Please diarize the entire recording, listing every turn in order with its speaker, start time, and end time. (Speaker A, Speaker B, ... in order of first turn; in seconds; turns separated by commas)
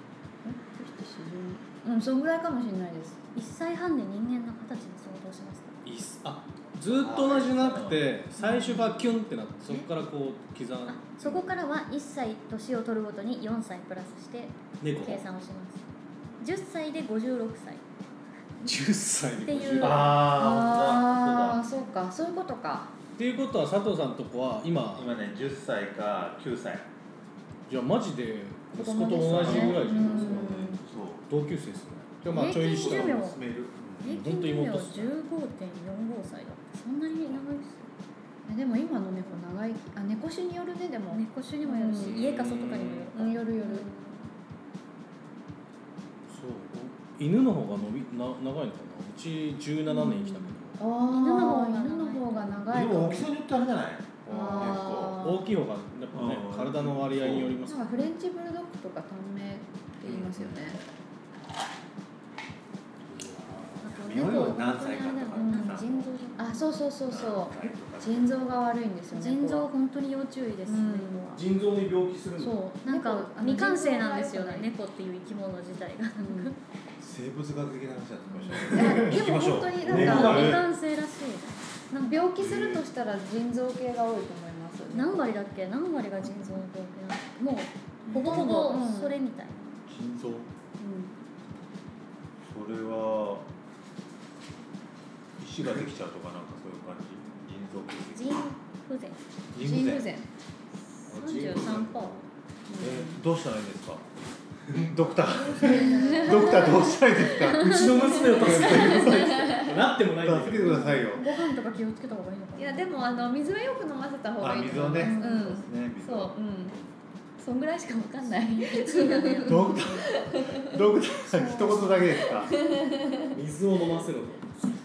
Speaker A: 0.4-3.2, Speaker B: 3.4-5.8, Speaker C: 5.8-11.7, Speaker D: 6.9-8.1, Speaker A: 8.4-9.1, Speaker B: 10.9-15.9, Speaker C: 14.8-15.2, Speaker B: 16.4-17.9, Speaker C: 18.6-20.3, Speaker B: 19.4-20.3, Speaker D: 19.8-21.6, Speaker A: 20.2-22.9, Speaker B: 21.5-21.9, Speaker C: 23.2-25.2, Speaker D: 25.0-26.9, Speaker C: 27.7-33.3, Speaker A: 28.8-30.8, Speaker D: 29.2-31.2, Speaker B: 32.3-33.4, Speaker D: 32.3-34.2, Speaker B: 34.0-37.9, Speaker C: 34.0-35.1, Speaker A: 38.5-42.2, Speaker B: 41.1-44.3, Speaker C: 42.0-43.1, Speaker A: 43.1-43.9, Speaker C: 46.3-50.8, Speaker A: 49.9-53.3, Speaker B: 51.1-53.0, Speaker D: 52.7-55.3, Speaker C: 54.2-57.9, Speaker A: 54.3-55.4, Speaker D: 56.1-57.6, Speaker A: 57.7-60.8, Speaker C: 60.1-60.4, Speaker D: 60.1-60.5, Speaker C: 63.1-64.5, Speaker B: 63.8-66.8, Speaker D: 63.9-66.2, Speaker A: 65.4-69.7, Speaker D: 67.0-68.5, Speaker B: 69.1-71.4, Speaker A: 70.7-71.4, Speaker C: 71.3-72.6, Speaker A: 72.4-74.7, Speaker B: 72.8-76.6, Speaker A: 76.2-76.5, Speaker D: 77.0-80.7, Speaker A: 78.7-80.6, Speaker C: 78.8-79.2, Speaker C: 79.8-80.6, Speaker B: 79.9-82.3, Speaker A: 82.0-85.4, Speaker D: 82.4-82.9, Speaker B: 84.9-89.8, Speaker D: 88.1-88.5, Speaker A: 88.1-89.2, Speaker D: 89.9-90.5, Speaker A: 90.8-91.1, Speaker D: 92.5-93.5, Speaker D: 95.4-98.5, Speaker B: 98.1-99.2, Speaker D: 99.5-100.1, Speaker A: 99.6-100.3, Speaker C: 101.1-102.2, Speaker B: 101.1-102.2, Speaker A: 102.7-103.2, Speaker D: 102.8-104.0, Speaker D: 104.7-109.3, Speaker B: 105.3-106.9, Speaker A: 105.5-106.9, Speaker C: 107.5-111.0, Speaker B: 107.8-108.7, Speaker A: 108.0-109.7, Speaker D: 110.0-111.2, Speaker A: 110.7-111.1, Speaker B: 110.7-113.3, Speaker A: 112.6-116.8, Speaker D: 114.4-116.3, Speaker B: 115.0-115.6, Speaker A: 117.4-120.8, Speaker B: 118.2-120.2, Speaker D: 119.4-122.5, Speaker B: 121.3-121.9, Speaker A: 122.3-123.4, Speaker C: 123.3-124.6